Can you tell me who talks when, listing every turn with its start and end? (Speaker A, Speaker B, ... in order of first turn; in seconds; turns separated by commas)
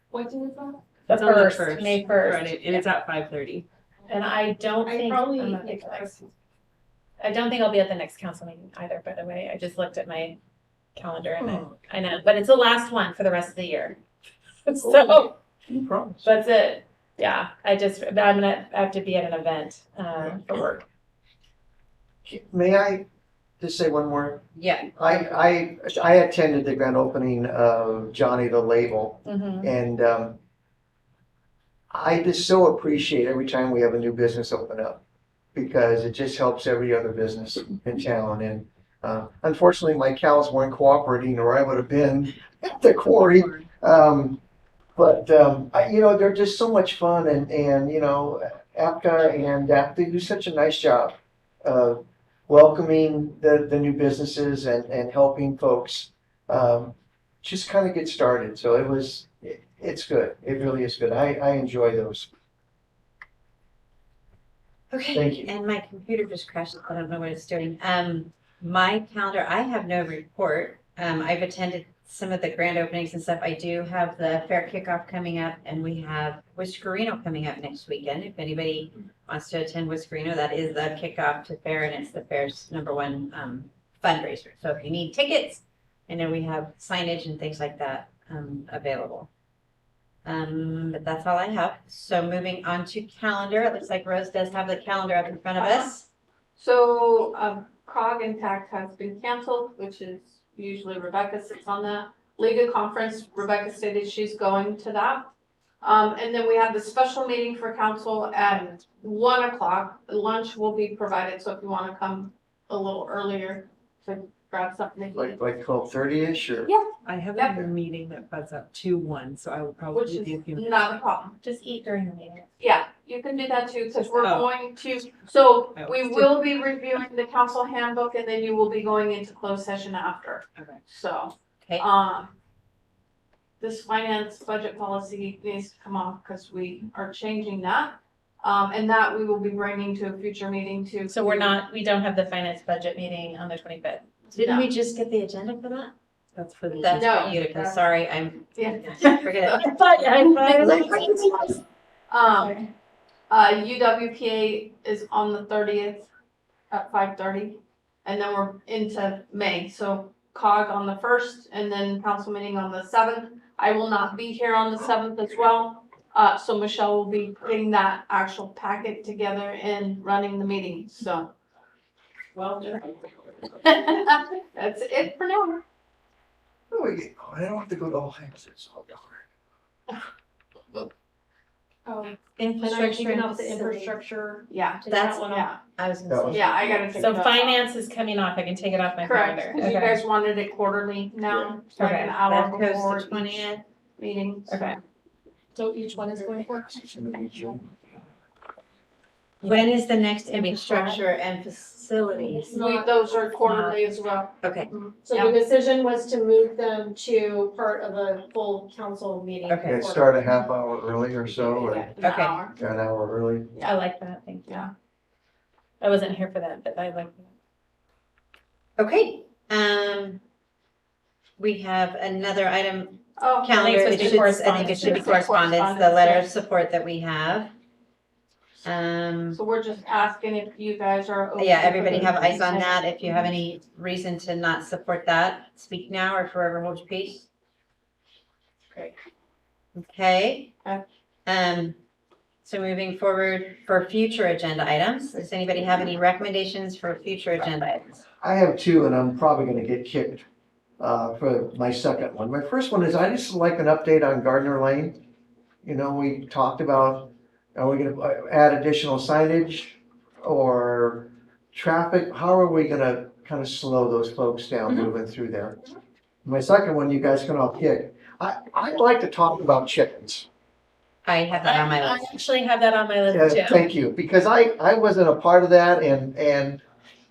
Speaker A: 0.1-0.8, Speaker B: 1.1-2.9, Speaker C: 1.1-3.7, Speaker B: 4.1-6.1, Speaker D: 4.8-6.1, Speaker B: 7.2-10.4, Speaker B: 10.9-14.0, Speaker E: 11.4-11.8, Speaker B: 14.7-15.3, Speaker E: 14.8-16.3, Speaker B: 16.2-20.8, Speaker E: 20.1-20.4, Speaker E: 22.2-23.1, Speaker E: 23.6-24.4, Speaker F: 24.5-24.9, Speaker E: 24.9-30.4, Speaker B: 29.2-29.7, Speaker E: 31.9-35.0, Speaker E: 35.5-44.4, Speaker C: 43.1-43.7, Speaker E: 45.0-62.3, Speaker F: 64.9-89.3, Speaker E: 65.1-65.5, Speaker F: 90.2-96.1, Speaker A: 95.6-95.9, Speaker A: 96.5-115.4, Speaker E: 115.1-116.7, Speaker A: 116.6-117.7, Speaker C: 117.0-120.9, Speaker A: 119.9-121.4, Speaker B: 121.4-122.5, Speaker A: 122.6-132.3, Speaker C: 124.1-124.5, Speaker C: 125.8-126.4, Speaker C: 130.6-130.8, Speaker A: 133.6-141.6, Speaker B: 141.1-144.2, Speaker F: 144.3-145.9, Speaker A: 144.3-144.7, Speaker C: 146.3-147.6, Speaker F: 146.8-151.5, Speaker A: 146.8-147.8, Speaker A: 148.6-149.6, Speaker B: 149.2-151.5, Speaker A: 152.1-152.6, Speaker B: 152.4-152.6, Speaker A: 153.3-156.1, Speaker A: 156.7-171.3, Speaker A: 172.4-172.8, Speaker A: 173.6-175.6, Speaker E: 176.7-179.2, Speaker A: 181.9-182.1, Speaker F: 182.4-183.7, Speaker D: 182.6-184.4, Speaker A: 184.5-185.6, Speaker B: 184.8-185.2, Speaker F: 184.8-187.0, Speaker E: 186.1-187.1, Speaker A: 186.3-187.7, Speaker B: 186.9-190.0, Speaker A: 189.0-194.7, Speaker F: 191.7-193.6, Speaker B: 194.5-194.8, Speaker D: 195.6-197.5, Speaker E: 197.0-197.6, Speaker F: 199.4-202.5, Speaker B: 199.4-199.7, Speaker B: 200.2-201.0, Speaker D: 202.2-203.4, Speaker A: 202.5-205.3, Speaker B: 203.4-203.8, Speaker F: 204.4-204.7, Speaker D: 205.0-210.2, Speaker F: 209.4-209.8, Speaker E: 209.6-211.9, Speaker A: 211.4-212.6, Speaker F: 212.0-212.4, Speaker E: 212.6-213.5, Speaker B: 213.6-214.7, Speaker B: 215.8-217.3, Speaker F: 218.8-220.2, Speaker F: 221.4-227.5, Speaker A: 223.2-226.3, Speaker B: 223.6-225.2, Speaker F: 228.6-229.4, Speaker A: 229.3-232.7, Speaker F: 231.4-237.3, Speaker F: 239.8-240.6, Speaker F: 241.2-241.8, Speaker F: 242.4-248.0, Speaker E: 248.2-250.2, Speaker E: 250.8-255.0, Speaker E: 255.6-265.6, Speaker E: 266.2-270.3, Speaker F: 271.0-272.1, Speaker B: 271.3-273.6, Speaker E: 273.1-276.6